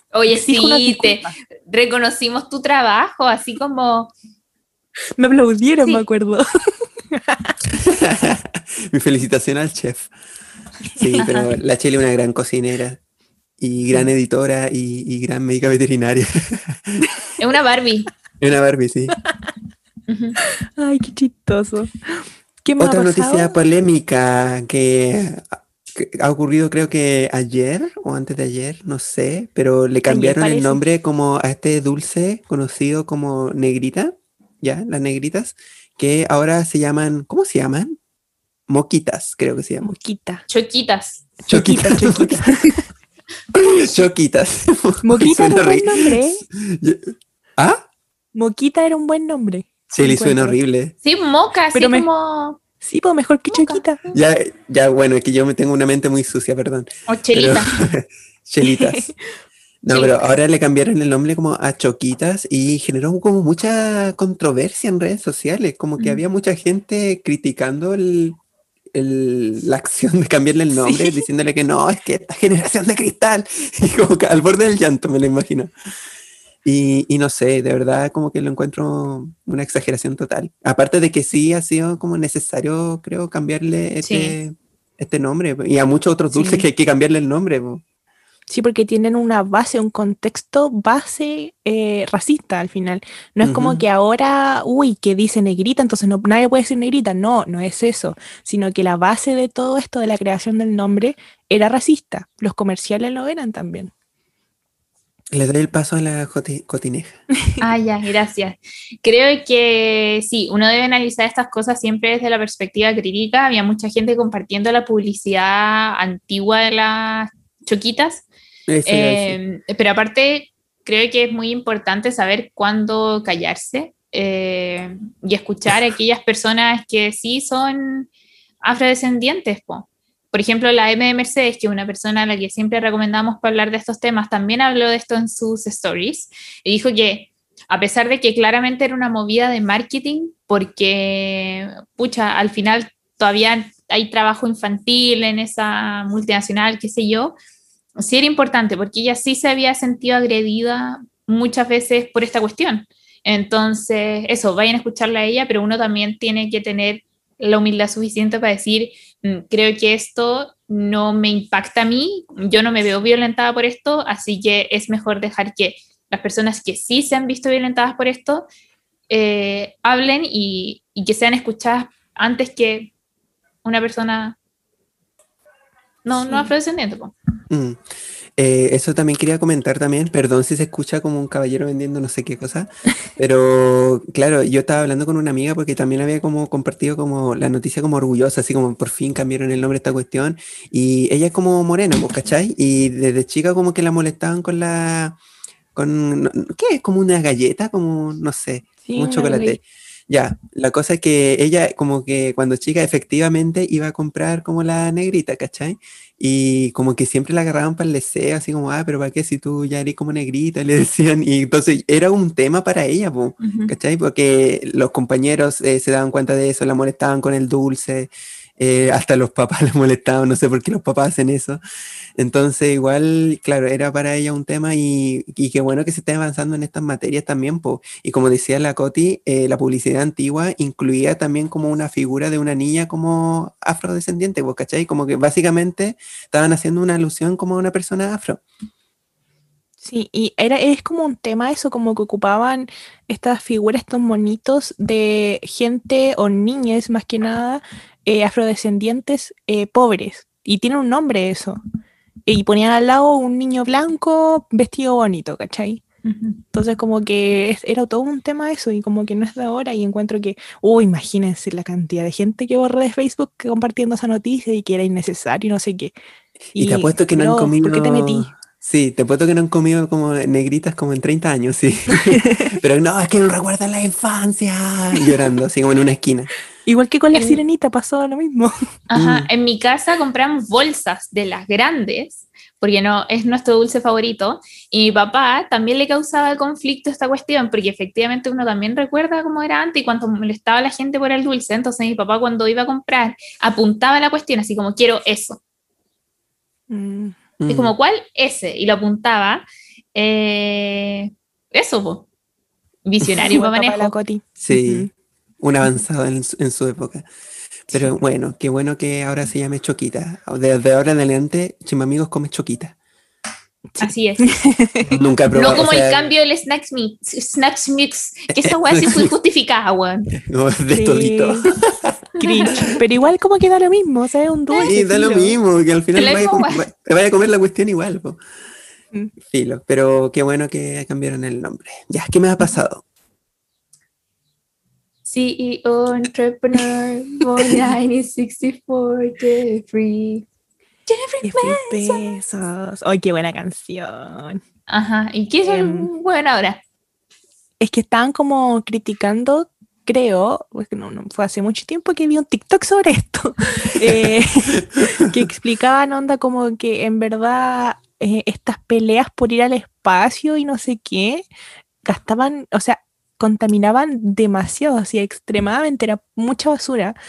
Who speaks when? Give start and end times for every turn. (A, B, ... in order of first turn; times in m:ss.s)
0:00.1-0:04.1 A
0:00.3-0:01.3 B
0:05.2-0:06.4 B
0:07.1-0:07.5 B
0:07.7-0:10.1 C
0:11.0-0:13.0 C
0:11.0-0:11.2 B
0:11.2-0:11.5 A
0:13.6-0:17.0 C
0:17.4-0:18.1 A
0:18.4-0:19.2 C
0:20.1-0:20.4 A
0:20.8-0:23.5 B
0:22.8-0:37.9 C
0:30.1-0:30.8 B
0:38.7-0:39.9 C
0:39.8-0:40.4 B
0:40.5-0:41.2 A
0:41.4-0:42.8 B
0:41.5-0:42.5 C
0:43.5-0:47.8 C
0:45.0-0:46.4 B
0:48.3-0:50.6 B
0:49.9-0:50.9 C
0:51.0-0:52.6 A
0:51.7-0:52.1 B
0:52.8-0:54.0 B
0:53.5-0:53.8 A
0:54.1-0:59.1 C
0:57.1-0:57.7 A
0:58.6-0:59.2 B
0:59.8-1:08.4 C
0:59.9-1:00.1 A
1:08.9-1:15.7 C
1:16.6-1:27.8 C
1:24.0-1:24.4 A
1:26.3-1:26.6 B
1:28.5-1:43.9 B
1:33.4-1:33.8 C
1:45.3-1:47.2 C
1:47.6-1:58.2 A
1:58.7-1:59.4 C
1:58.8-2:08.1 A
2:08.6-2:27.4 A
2:28.0-2:48.5 A
2:49.1-2:52.9 A
2:53.6-2:54.4 A
2:56.0-2:57.1 A
2:56.2-2:56.5 B
2:57.5-2:57.8 C
2:58.4-3:15.2 C
3:15.7-3:41.6 C
3:18.8-3:19.6 B
3:33.4-3:33.7 A
3:42.2-3:58.4 C
3:59.8-4:11.6 B
4:12.3-4:15.8 B
4:16.0-4:16.4 A
4:16.5-4:25.9 B
4:26.5-4:28.3 B
4:26.5-4:36.3 C
4:32.1-4:32.5 B
4:36.6-4:38.5 B
4:38.9-4:55.4 A
4:38.9-4:39.3 C
4:56.7-4:57.2 B
4:57.4-4:57.7 C
4:57.5-5:02.0 A
5:02.8-5:03.9 A
5:03.2-5:04.9 B
5:04.4-5:04.9 C
5:05.4-5:07.0 C
5:07.7-5:12.7 C
5:13.7-5:14.9 B
5:13.8-5:14.3 A
5:14.8-5:16.1 C
5:15.3-5:20.1 A
5:18.4-5:19.1 C
5:20.1-5:22.0 C
5:20.7-5:21.5 B
5:22.2-5:22.8 A
5:22.2-5:25.4 B
5:24.6-5:28.2 C
5:26.0-5:26.6 A
5:29.3-5:32.8 C
5:35.0-5:40.3 A
5:40.9-5:42.0 A
5:41.2-5:44.4 B
5:44.7-5:46.6 A
5:45.4-5:45.9 B
5:47.6-6:01.2 B
6:01.8-6:07.0 B